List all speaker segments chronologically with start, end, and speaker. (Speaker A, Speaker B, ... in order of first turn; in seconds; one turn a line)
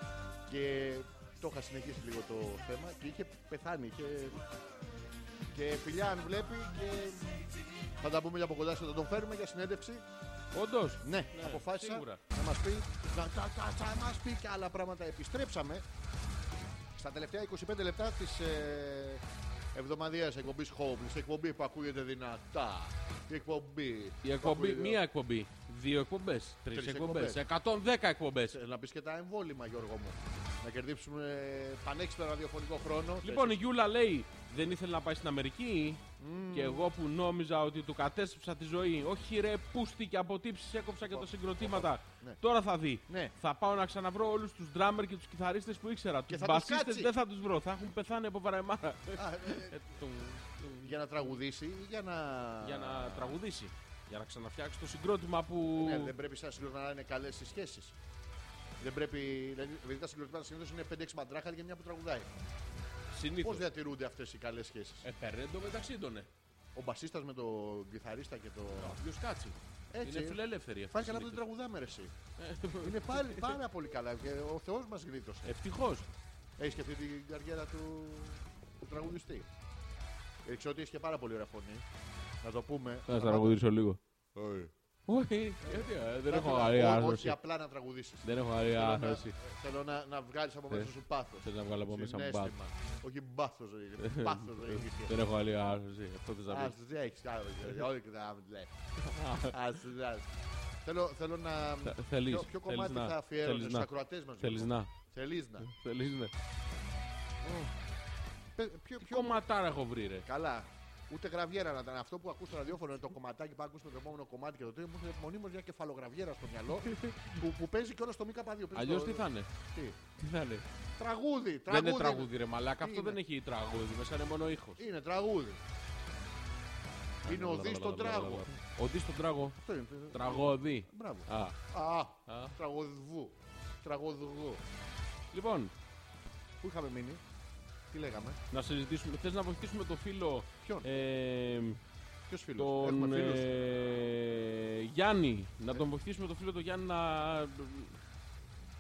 Speaker A: 0.5-4.5
Speaker A: 5.5-7.5
Speaker A: 8.0-10.0
Speaker B: 10.5-12.2
Speaker A: 11.0-15.8
Speaker A: 16.9-19.2
Speaker A: 19.7-25.0
Speaker B: 24.2-28.6
Speaker A: 26.7-27.4
Speaker A: 28.5-33.6
Speaker B: 33.2-51.3
Speaker A: 36.2-36.9
Speaker A: 41.1-42.4
Speaker A: 43.1-43.3
Speaker A: 46.3-47.1
Speaker A: 49.1-49.8
Speaker A: 50.8-53.4
Speaker B: 52.6-56.1
Speaker A: 55.7-57.9
Speaker A: 58.8-62.3
Speaker B: 63.1-63.7
Speaker A: 63.4-65.1
Speaker B: 65.0-66.3
Speaker A: 66.7-69.0
Speaker B: 68.8-71.4
Speaker A: 69.9-72.1
Speaker B: 72.4-73.6
Speaker A: 72.8-75.6
Speaker B: 75.4-76.1
Speaker A: 76.6-79.5
Speaker A: 80.4-81.9
Speaker A: 82.4-83.6
Speaker B: 83.1-84.0
Speaker A: 84.3-84.7
Speaker B: 85.1-87.4
Speaker A: 85.6-95.2
Speaker B: 88.2-89.4
Speaker B: 90.7-92.5
Speaker B: 94.0-96.7
Speaker A: 96.5-98.7
Speaker B: 99.0-99.6
Speaker A: 99.5-100.3
Speaker A: 100.8-105.7
Speaker B: 101.8-104.9
Speaker B: 105.6-106.3
Speaker A: 107.4-107.7
Speaker A: 108.6-109.4
Speaker B: 109.0-110.3
Speaker A: 110.2-120.0
Speaker B: 116.8-117.4
Speaker B: 118.7-119.5
Speaker B: 120.2-120.7
Speaker A: 121.0-123.2
Speaker B: 121.7-124.8
Speaker A: 124.8-125.6
Speaker B: 127.2-129.6
Speaker A: 127.3-128.5
Speaker A: 129.6-134.6
Speaker B: 130.1-131.6
Speaker B: 132.3-132.6
Speaker B: 135.3-135.7
Speaker A: 136.6-137.2
Speaker A: 137.9-138.4
Speaker B: 138.5-141.8
Speaker A: 140.6-140.9
Speaker A: 142.3-143.8
Speaker B: 142.6-148.0